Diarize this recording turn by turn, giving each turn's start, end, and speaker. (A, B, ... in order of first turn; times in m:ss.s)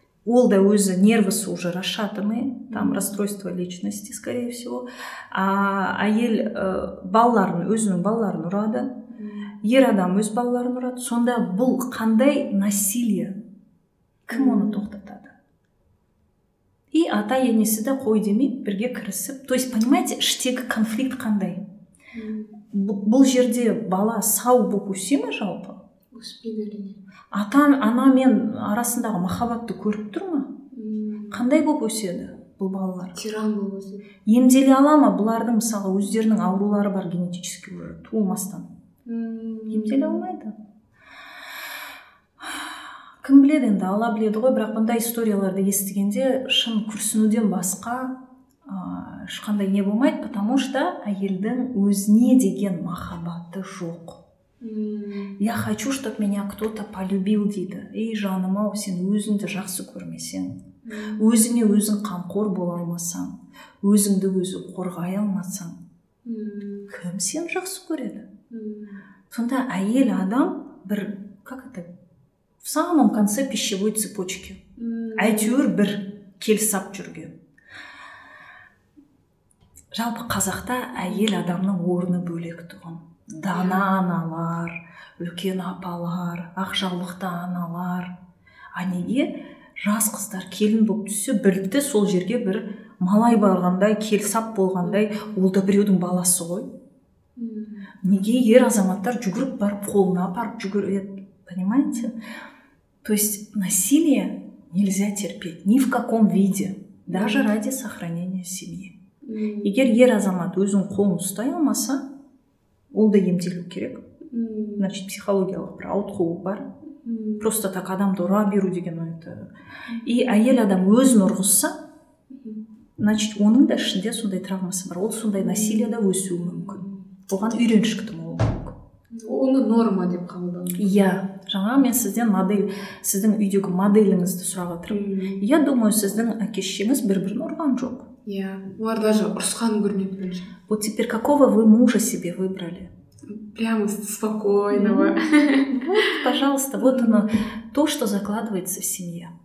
0:00.2-0:08.9 A
0:02.7-0:03.1 B
0:09.1-0:09.5 B
0:09.6-0:13.4 A
0:14.2-0:15.3 A
0:14.3-0:14.8 B
0:16.9-0:21.6 A
0:22.1-0:22.6 B
0:22.7-0:25.8 A
0:26.1-0:27.0 B
0:27.3-0:30.5 A
0:30.7-0:31.4 B
0:31.3-0:33.1 A
0:33.1-0:34.0 B
0:34.2-0:38.7 A
0:39.0-0:40.2 B
0:39.7-0:40.5 A
0:42.4-0:48.1 A
0:48.6-0:54.2 A
0:54.6-0:55.4 B
0:55.4-1:00.6 A
1:00.8-1:01.3 B
1:01.2-1:05.8 A
1:06.2-1:06.9 B
1:06.9-1:08.3 A
1:08.5-1:09.0 B
1:09.3-1:11.9 A
1:12.6-1:14.6 A
1:14.8-1:15.6 B
1:15.2-1:17.3 A
1:19.9-1:28.1 A
1:21.0-1:21.3 B
1:23.5-1:24.0 B
1:28.8-1:36.7 A
1:34.8-1:35.3 B
1:37.4-1:38.0 B
1:38.0-1:42.1 A
1:43.0-1:48.9 A
1:47.1-1:47.5 B
1:49.2-1:49.8 B
1:49.6-1:52.0 A
1:52.9-1:54.0 A
1:54.3-1:54.9 B
1:54.8-1:56.6 A
1:57.0-1:57.5 B
1:57.4-1:59.5 A
2:00.0-2:01.7 A
2:02.3-2:02.6 B
2:03.0-2:08.8 A
2:05.4-2:07.1 B
2:09.1-2:11.0 B
2:10.8-2:18.1 A
2:14.9-2:15.4 B
2:18.2-2:20.5 B
2:20.7-2:22.9 A
2:23.3-2:26.2 B
2:24.7-2:29.3 A
2:26.8-2:27.4 B